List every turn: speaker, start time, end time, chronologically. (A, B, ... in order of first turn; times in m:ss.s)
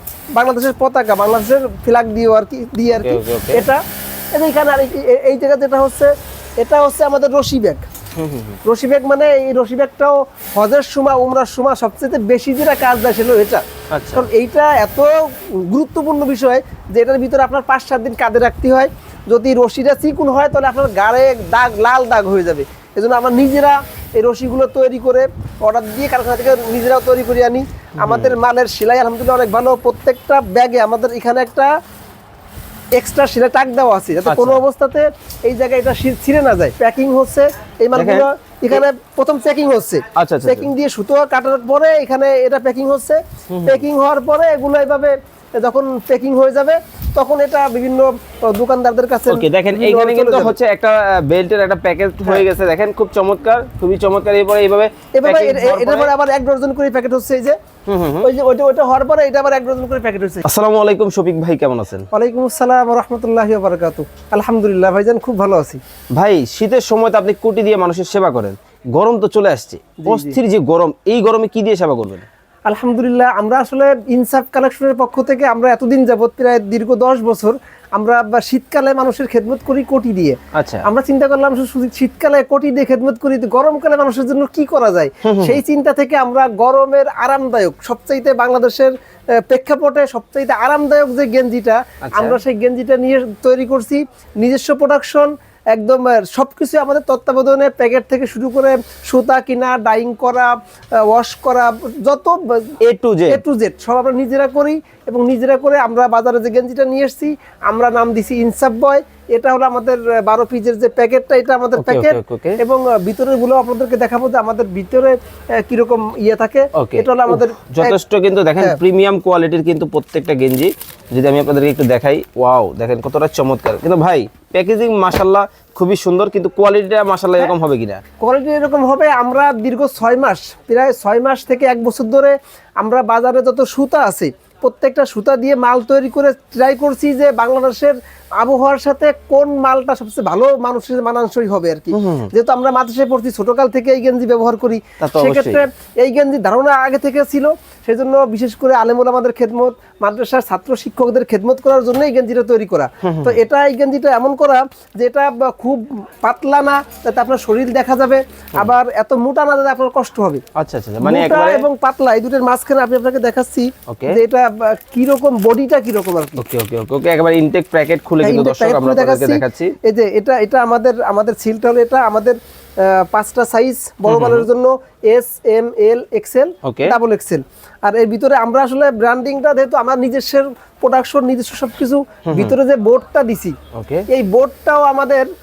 0:00.3-0:03.8 A
0:02.9-0:03.7 B
0:04.3-0:07.8 A
0:08.2-0:08.6 B
0:08.6-0:31.7 A
0:13.9-0:14.3 B
0:28.0-0:28.3 B
0:33.0-0:50.5 A
0:34.2-0:34.6 B
0:37.9-0:38.8 B
0:40.2-0:40.7 B
0:43.5-0:43.8 B
0:49.3-0:56.1 B
0:55.1-0:57.6 A
0:57.8-0:58.3 B
0:58.2-1:00.4 A
1:00.4-1:02.0 B
1:02.1-1:05.8 A
1:06.1-1:12.2 B
1:10.0-1:10.4 A
1:12.7-1:28.9 A
1:20.5-1:20.8 B
1:25.2-1:25.6 B
1:29.4-1:40.5 A
1:32.0-1:32.4 B
1:41.0-1:42.7 A
1:42.8-1:43.4 B
1:43.3-1:58.0 A
1:51.8-1:52.6 B
1:56.7-2:08.0 B
2:08.2-2:40.4 A
2:21.9-2:22.3 B
2:25.0-2:25.6 B
2:33.0-2:33.4 B
2:40.5-2:41.6 B
2:41.0-2:46.4 A
2:43.9-2:44.2 B
2:46.4-2:49.7 B
2:48.2-3:03.6 A
2:54.1-2:54.5 B
2:56.6-2:56.9 B
3:02.3-3:02.5 B
3:03.7-3:04.0 B
3:04.1-3:05.2 A